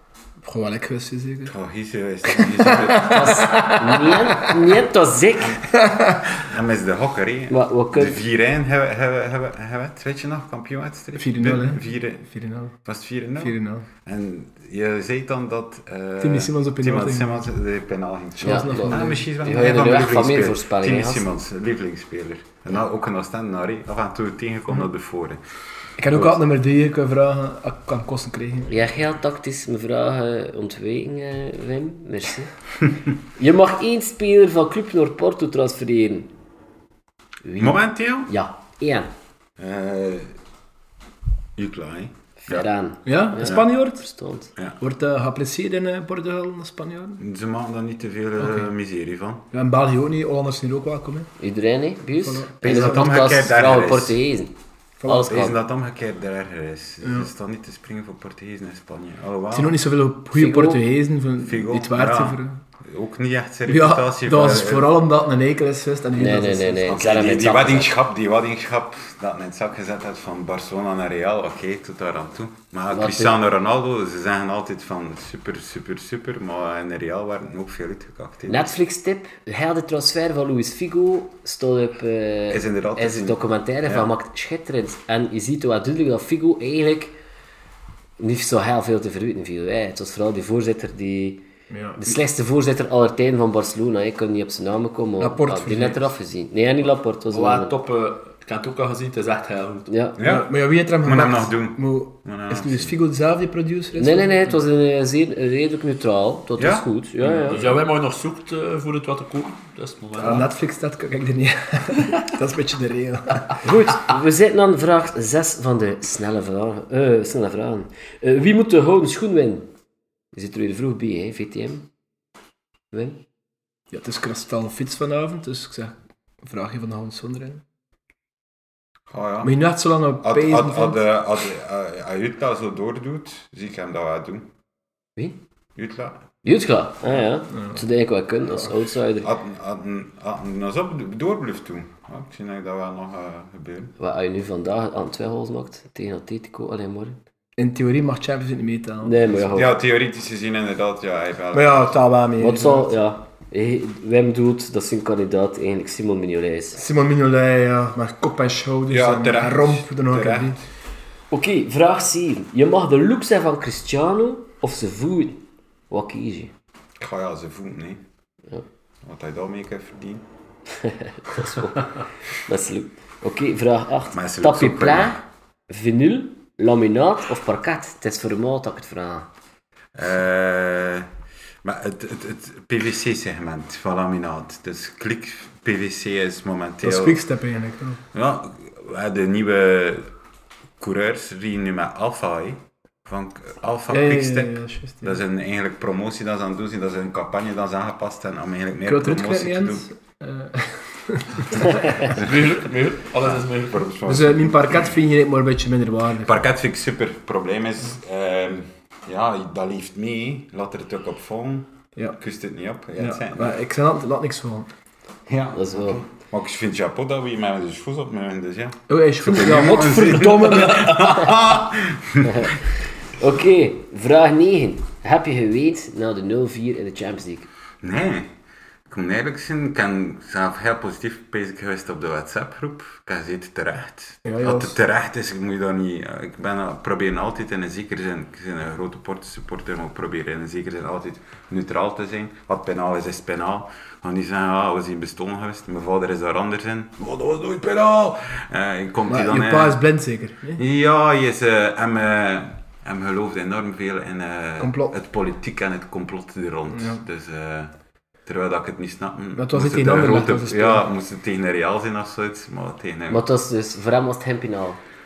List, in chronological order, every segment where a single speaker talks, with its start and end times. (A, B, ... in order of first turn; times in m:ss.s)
0:00.4-0:01.5 A
0:01.4-0:03.6 B
0:02.3-0:04.7 A
0:02.9-0:05.6 C
0:05.7-0:06.4 A
0:06.4-0:12.3 B
0:07.5-0:08.2 C
0:11.2-0:12.7 A
0:12.8-0:25.4 B
0:13.4-0:13.9 A
0:16.2-0:17.4 A
0:18.4-0:19.2 A
0:18.4-0:21.2 C
0:26.0-0:28.7 A
0:26.1-0:26.4 B
0:28.7-0:32.5 C
0:33.3-0:36.3 C
0:37.4-0:39.1 C
0:37.6-0:38.3 B
0:39.6-0:40.3 B
0:41.6-0:42.6 B
0:42.4-0:44.5 C
0:43.0-0:44.0 A
0:43.4-0:43.6 B
0:44.8-0:47.2 A
0:47.2-0:49.4 B
0:48.4-0:48.7 A
0:49.5-0:51.3 A
0:51.4-0:55.6 C
0:52.2-0:53.0 A
0:52.6-0:54.2 B
0:55.0-0:55.5 A
0:55.2-0:59.8 B
0:57.0-0:57.3 A
0:59.5-1:02.6 A
1:00.3-1:00.8 C
1:01.4-1:04.9 B
1:03.6-1:07.0 A
1:06.1-1:08.0 C
1:06.8-1:18.7 B
1:12.9-1:13.3 C
1:18.5-1:27.1 C
1:22.5-1:24.1 B
1:28.2-1:31.4 C
1:31.7-1:32.2 A
1:32.0-1:37.7 C
1:35.2-1:36.0 A
1:37.3-1:39.9 D
1:39.9-1:40.2 C
1:40.2-1:42.9 B
1:40.2-1:44.6 A
1:43.9-1:47.7 C
1:46.6-1:46.9 B
1:47.2-1:47.6 A
1:47.5-1:50.5 D
1:50.2-1:53.6 A
1:53.6-1:59.7 C
2:00.3-2:01.9 C
2:02.9-2:03.2 C
2:03.9-2:07.6 A
2:09.1-2:09.6 B
2:09.4-2:11.0 A
2:10.2-2:14.5 B
2:15.8-2:16.2 B
2:16.4-2:19.3 C
2:17.5-2:17.8 A
2:19.2-2:23.9 B
2:24.0-2:27.2 C
2:27.6-2:29.5 A
2:29.0-2:29.7 C
2:29.5-2:31.9 B
2:31.5-2:32.9 A
2:32.4-2:36.8 C
2:36.8-2:40.6 A
2:38.9-2:40.6 B
2:41.3-2:46.5 C
2:47.0-2:48.0 B
2:49.0-2:50.2 B
2:50.7-2:59.3 C
2:54.1-2:55.2 B
2:59.9-3:01.1 B
3:01.6-3:07.2 B
3:06.8-3:08.0 A
3:08.1-3:10.1 B
3:10.8-3:19.9 B
3:13.9-3:15.2 A
3:18.8-3:22.2 A
3:21.6-3:22.4 B
3:22.1-3:23.9 D
3:23.2-3:25.0 B
3:24.0-3:26.4 A
3:26.2-3:33.6 B
3:33.0-3:34.7 A
3:35.3-3:42.6 B
3:35.5-3:36.0 C
3:38.9-3:41.3 A
3:43.2-3:47.5 C
3:47.8-3:48.3 B
3:48.9-4:09.8 B
3:54.2-3:54.7 A
4:09.1-4:10.6 A
4:10.6-4:17.7 B
4:14.6-4:14.9 A
4:16.7-4:17.0 A
4:18.2-4:23.2 B
4:19.4-4:20.8 A
4:23.1-4:24.8 C